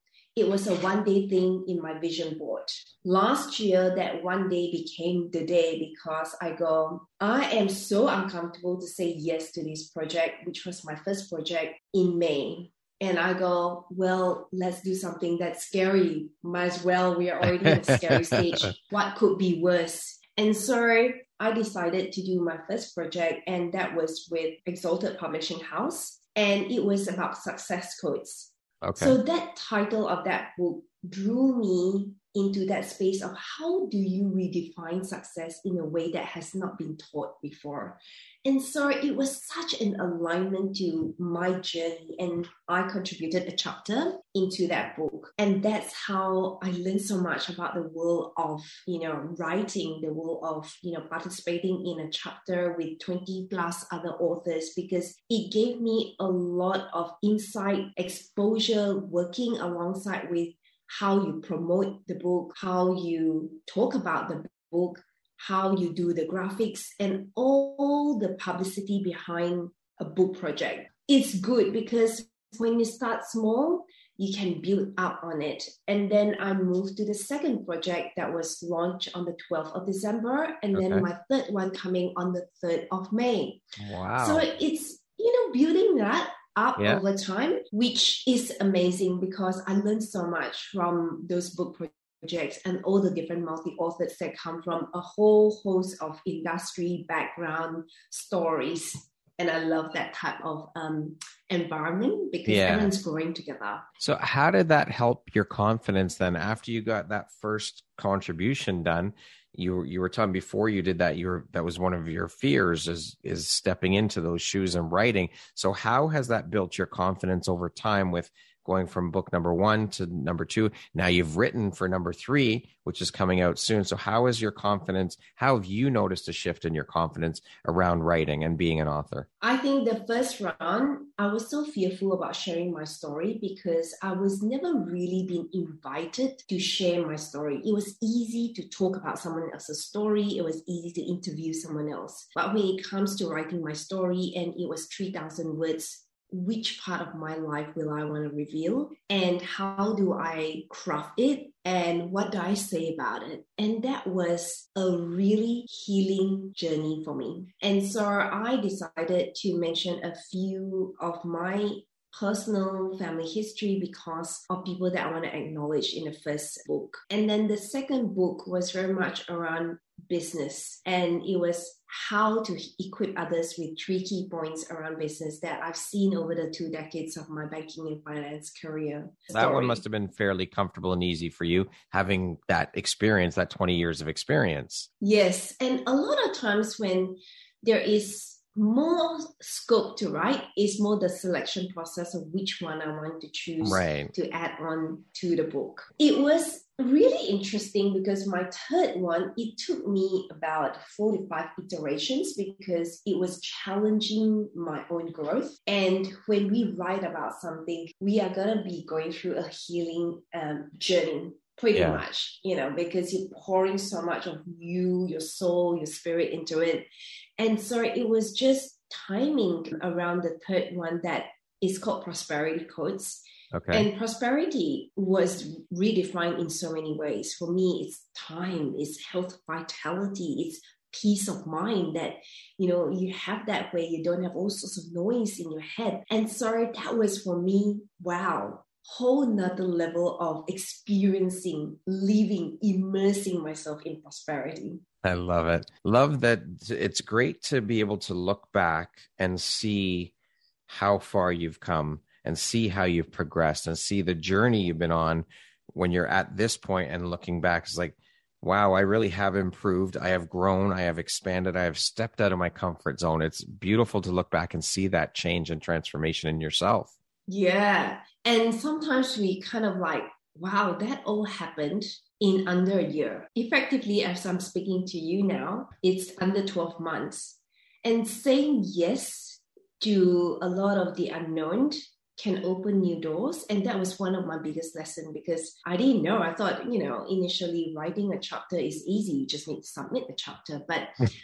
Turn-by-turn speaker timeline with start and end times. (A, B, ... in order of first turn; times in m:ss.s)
0:00.4-1:23.6 A
0:17.6-0:18.7 B
0:28.8-0:29.2 B
1:20.7-1:21.1 B
1:23.8-1:24.5 B
1:24.2-1:43.8 A
1:42.4-1:42.9 B
1:44.0-2:09.3 B
2:09.4-2:59.8 A
2:59.3-3:04.9 B
3:05.0-3:36.8 A
3:13.6-3:14.1 B
3:31.7-3:32.0 B
3:37.4-4:04.8 A
3:43.5-3:43.9 B
4:05.0-4:10.1 B
4:10.7-4:26.9 B
4:27.3-4:50.9 A